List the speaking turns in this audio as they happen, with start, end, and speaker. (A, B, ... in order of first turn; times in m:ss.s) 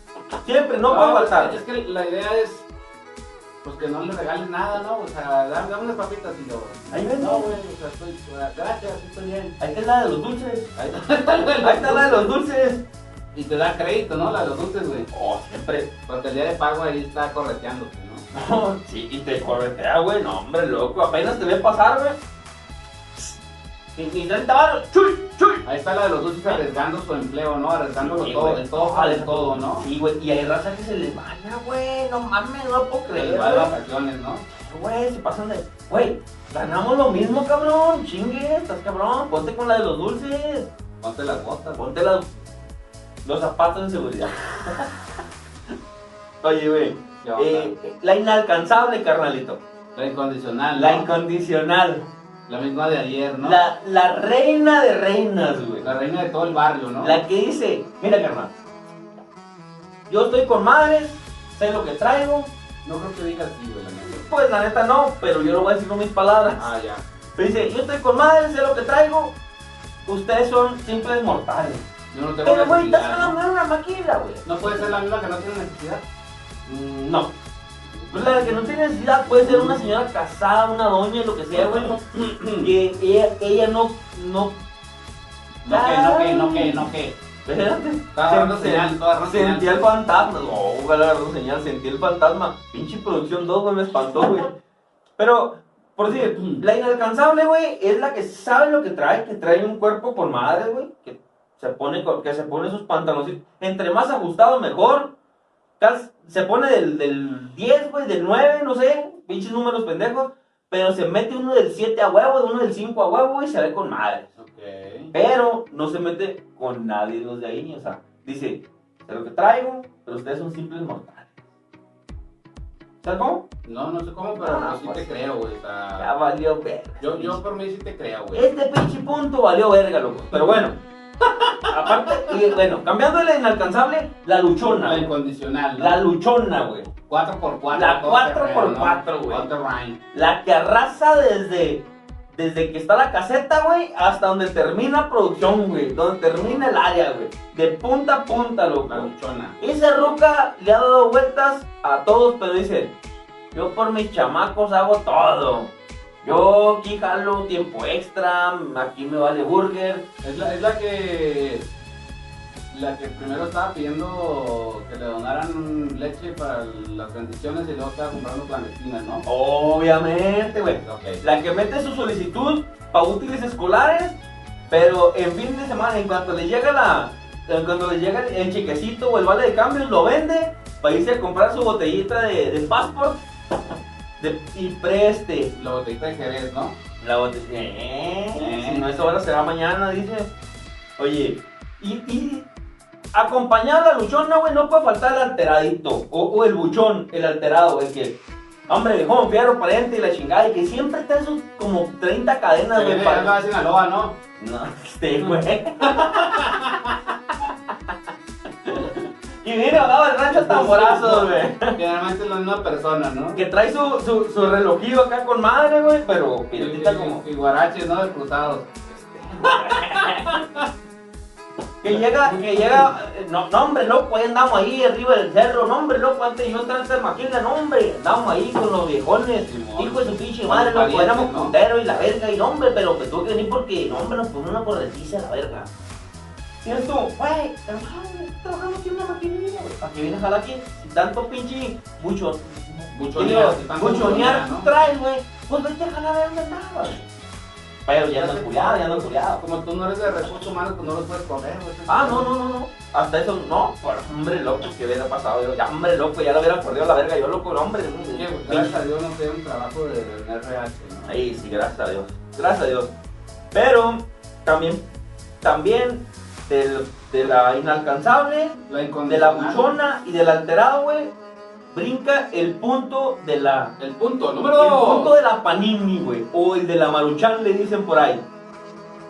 0:00.4-0:01.6 A
0:00.8-0:02.7 B
0:03.6-0:09.6 B
0:06.9-0:07.5 A
0:09.6-0:10.7 A
0:10.8-0:12.3 B
0:11.6-0:12.8 A
0:13.3-0:15.1 B
0:15.1-0:15.9 A
0:16.1-0:18.2 B
0:18.3-0:22.2 A
0:23.9-0:25.6 A
0:25.6-0:29.9 B
0:28.0-0:33.7 A
0:33.1-0:34.5 B
0:34.5-0:40.7 A
0:41.0-0:41.9 B
0:41.8-0:42.3 A
0:43.2-0:45.0 A
0:46.4-0:49.6 A
0:47.2-0:47.7 B
0:49.9-0:51.1 B
0:50.7-0:52.1 A
0:52.5-0:53.6 B
0:53.4-0:55.9 A
0:55.8-0:57.2 B
0:57.0-0:58.5 A
1:00.1-1:02.5 A
1:02.8-1:04.3 B
1:04.1-1:06.7 A
1:06.6-1:07.0 B
1:07.4-1:09.3 A
1:10.1-1:11.8 A
1:12.1-1:13.4 B
1:12.4-1:14.9 A
1:14.4-1:16.0 B
1:16.6-1:17.3 A
1:17.9-1:20.0 B
1:18.1-1:21.9 A
1:21.5-1:22.7 B
1:22.6-1:24.6 A
1:25.6-1:27.2 B
1:25.7-1:26.9 A
1:27.4-1:34.5 A
1:28.1-1:30.3 B
1:35.2-1:45.1 A
1:36.1-1:36.6 B
1:45.8-1:54.3 A
1:54.4-1:55.1 B
1:55.1-2:01.3 A
2:03.0-2:03.4 A
2:03.6-2:06.2 B
2:04.4-2:05.1 A
2:06.0-2:07.4 A
2:07.0-2:08.5 B
2:08.3-2:10.8 A
2:11.2-2:12.4 B
2:11.6-2:15.1 A
2:14.8-2:16.0 B
2:15.8-2:16.9 A
2:17.0-2:20.0 B
2:17.7-2:19.4 A
2:20.1-2:29.1 A
2:26.4-2:26.6 B
2:28.8-2:29.6 B
2:29.6-2:32.9 A
2:33.5-2:35.7 A
2:36.2-2:40.0 A
2:40.2-2:41.7 B
2:42.7-2:49.3 B
2:49.2-2:54.2 A
2:50.8-2:51.2 B
2:54.7-3:03.2 A
3:04.2-3:05.5 A
3:05.5-3:06.8 B
3:07.0-3:10.3 A
3:08.4-3:09.2 B
3:11.0-3:12.5 A
3:13.1-3:23.3 A
3:22.7-3:24.2 B
3:24.4-3:26.8 A
3:25.8-3:27.0 B
3:27.4-3:27.7 A
3:28.6-3:31.8 A
3:29.8-3:33.4 B
3:33.3-3:37.2 A
3:36.6-3:40.7 B
3:39.4-3:40.4 A
3:41.8-3:55.7 A
3:41.8-3:42.9 B
3:49.4-3:51.5 B
3:56.6-4:07.1 A
4:02.9-4:04.7 B
4:07.8-4:09.4 A
4:08.1-4:12.3 B
4:11.9-4:18.8 A
4:18.1-4:21.2 B
4:21.1-4:22.9 A
4:23.5-4:24.8 A
4:25.4-4:31.1 A
4:28.7-4:29.7 B
4:31.7-4:33.7 A
4:33.8-4:35.1 B
4:34.6-4:38.2 A